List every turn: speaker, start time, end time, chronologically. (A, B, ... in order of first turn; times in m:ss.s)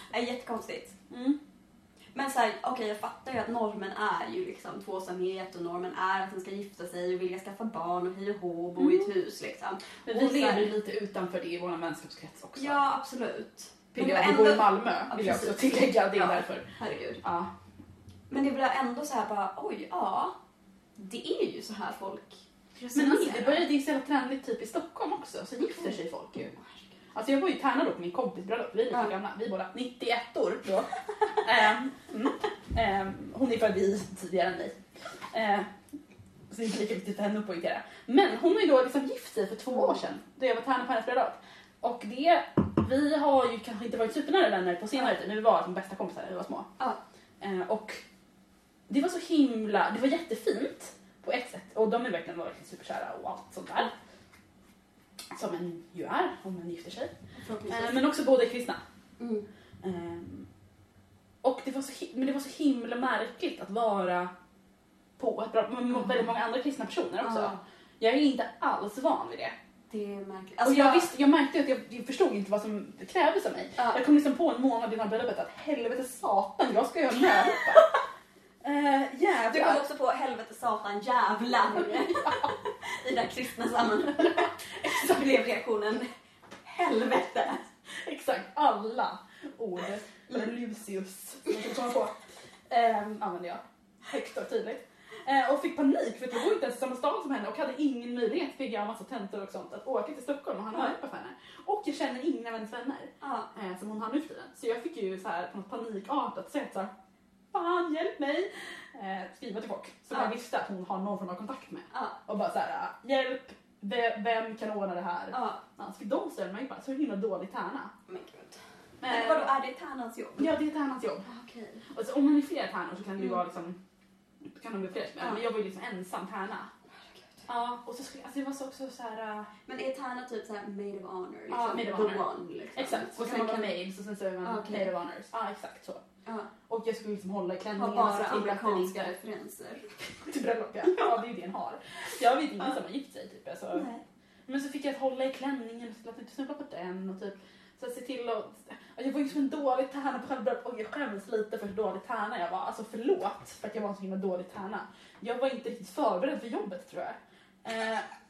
0:00.1-0:00.9 A
0:01.1-0:01.4 B
0:02.1-0:10.7 A
0:08.8-0:09.1 B
0:10.0-0:12.8 B
0:12.6-0:17.2 A
0:13.9-0:16.7 B
0:17.2-0:17.5 B
0:18.3-0:20.3 A
0:21.0-0:23.6 A
0:22.9-0:26.5 B
0:25.6-0:25.9 A
0:26.5-0:26.8 A
0:27.1-0:34.8 B
0:35.3-0:35.7 B
0:36.5-0:46.7 B
0:47.4-0:48.0 B
0:48.9-0:53.9 B
0:55.3-0:57.1 B
0:57.4-0:58.0 A
0:57.7-0:58.8 B
0:59.2-0:59.4 A
0:59.8-1:00.5 B
1:01.4-1:04.3 B
1:05.2-1:09.5 B
1:07.2-1:07.6 A
1:09.9-1:11.1 A
1:10.6-1:17.9 B
1:17.5-1:17.8 A
1:18.6-1:19.8 B
1:19.4-1:26.1 A
1:21.7-1:22.5 B
1:24.8-1:25.2 B
1:26.6-1:27.6 A
1:27.9-1:46.9 B
1:43.2-1:43.5 A
1:47.5-1:57.9 B
1:51.9-1:52.2 A
1:55.3-1:55.6 A
1:58.1-2:00.5 A
1:59.0-1:59.5 B
2:00.4-2:01.2 B
2:01.2-2:01.8 A
2:01.9-2:03.8 B
2:04.4-2:06.7 B
2:07.0-2:07.5 A
2:07.5-2:09.5 B
2:09.7-2:13.7 A
2:11.5-2:12.2 B
2:12.8-2:16.0 B
2:14.4-2:14.9 A
2:16.7-2:19.1 B
2:17.8-2:19.9 A
2:20.1-2:23.8 B
2:23.7-2:24.0 A
2:24.5-2:38.0 B